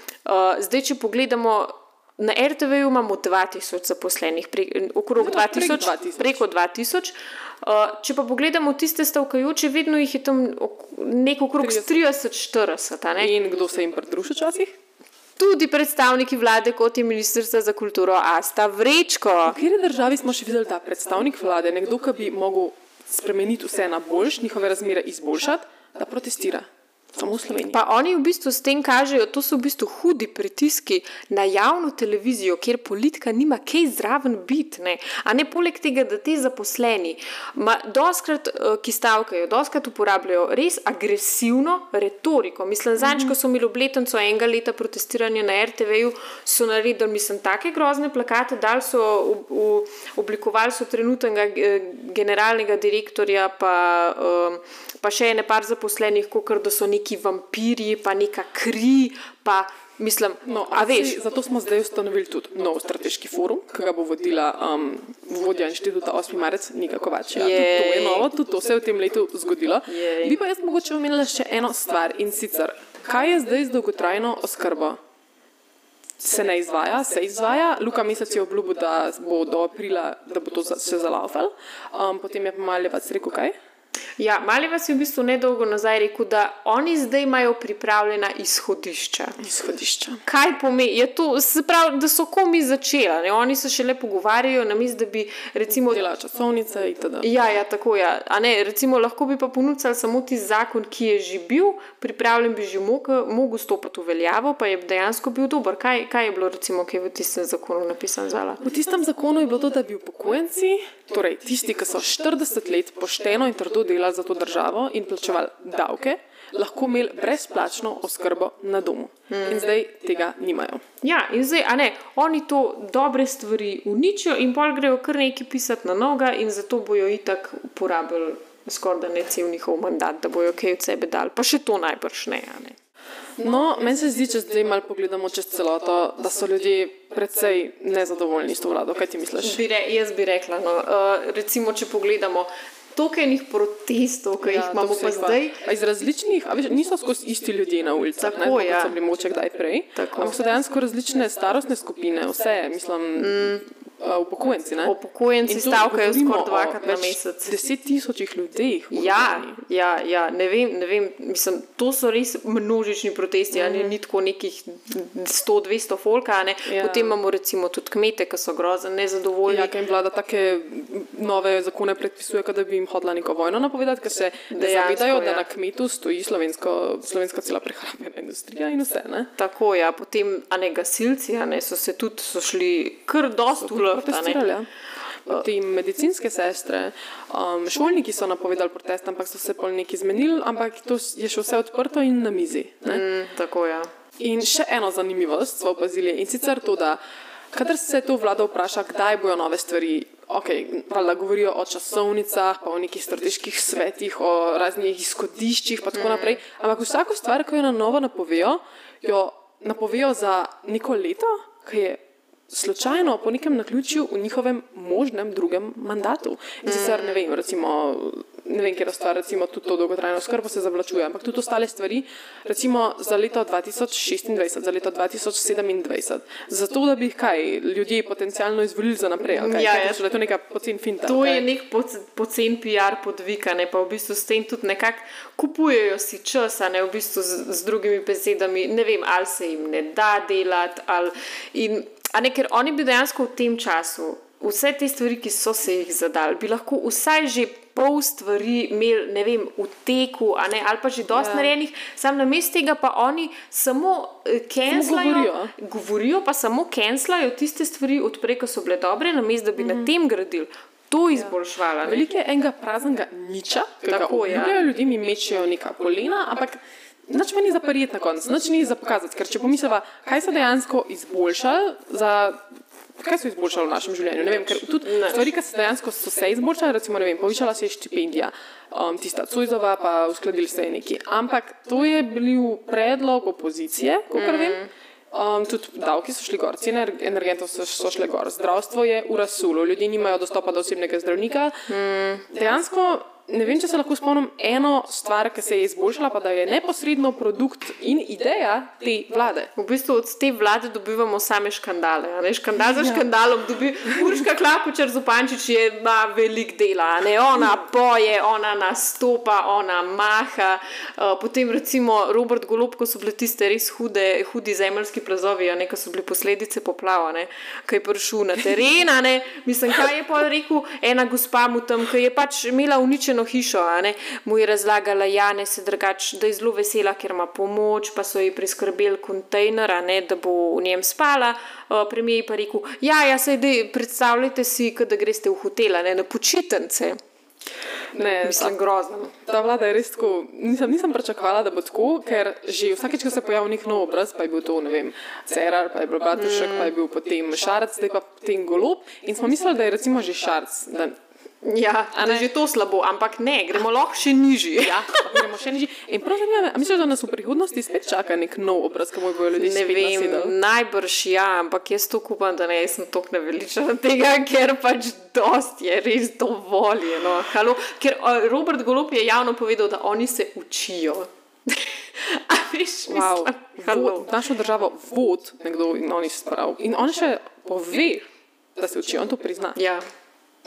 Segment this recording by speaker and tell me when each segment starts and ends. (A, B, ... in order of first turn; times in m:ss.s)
0:00.2-0:13.3 A
0:05.2-0:06.4 B
0:11.6-0:12.0 B
0:13.2-0:14.7 B
0:15.4-0:19.6 A
0:19.4-0:27.8 B
0:27.7-1:01.2 A
0:43.0-0:43.3 B
1:00.4-1:15.0 B
1:07.4-1:08.3 A
1:09.9-1:10.4 A
1:16.2-1:23.5 B
1:24.2-1:29.4 A
1:29.4-1:30.2 B
1:30.2-1:36.0 A
1:35.8-1:37.3 B
1:37.2-1:48.6 A
1:48.6-2:00.8 B
1:59.3-1:59.7 A
2:01.0-2:12.8 A
2:13.4-2:19.6 B
2:19.4-2:25.6 A
2:24.4-2:34.9 B
2:28.2-2:29.0 A
2:29.9-2:30.4 A
2:33.2-2:33.6 A
2:34.8-2:37.5 A
2:35.4-2:39.5 B
2:38.9-2:49.7 A
2:43.5-2:43.9 B
2:46.6-2:47.1 B
2:49.5-2:59.3 B
2:54.5-2:55.4 A
2:59.4-3:04.4 A
3:03.5-3:04.7 B
3:05.2-3:13.0 B
3:12.9-3:13.9 A
3:14.2-3:17.0 B
3:17.5-3:32.0 B
3:25.9-3:26.4 A
3:32.5-3:51.4 B
3:36.6-3:37.2 A
3:49.3-3:50.0 A
3:51.0-4:22.0 A
4:11.1-4:11.5 B
4:14.7-4:15.5 B
4:19.6-4:19.9 B
4:21.1-4:32.4 B
4:23.9-4:24.6 A
4:33.0-4:51.5 B
4:34.8-4:35.2 A
4:44.2-4:44.7 A
4:51.7-4:52.2 A
4:52.3-4:59.5 B
4:59.6-5:37.0 A
5:37.9-5:38.6 B
5:38.2-5:39.1 A
5:39.2-5:51.0 B
5:46.1-5:46.7 A
5:51.4-5:55.2 A
5:52.0-5:52.2 B
5:54.6-6:00.3 B
5:59.4-6:14.1 A
6:12.9-6:18.0 B
6:18.6-6:19.6 B
6:19.5-6:19.8 A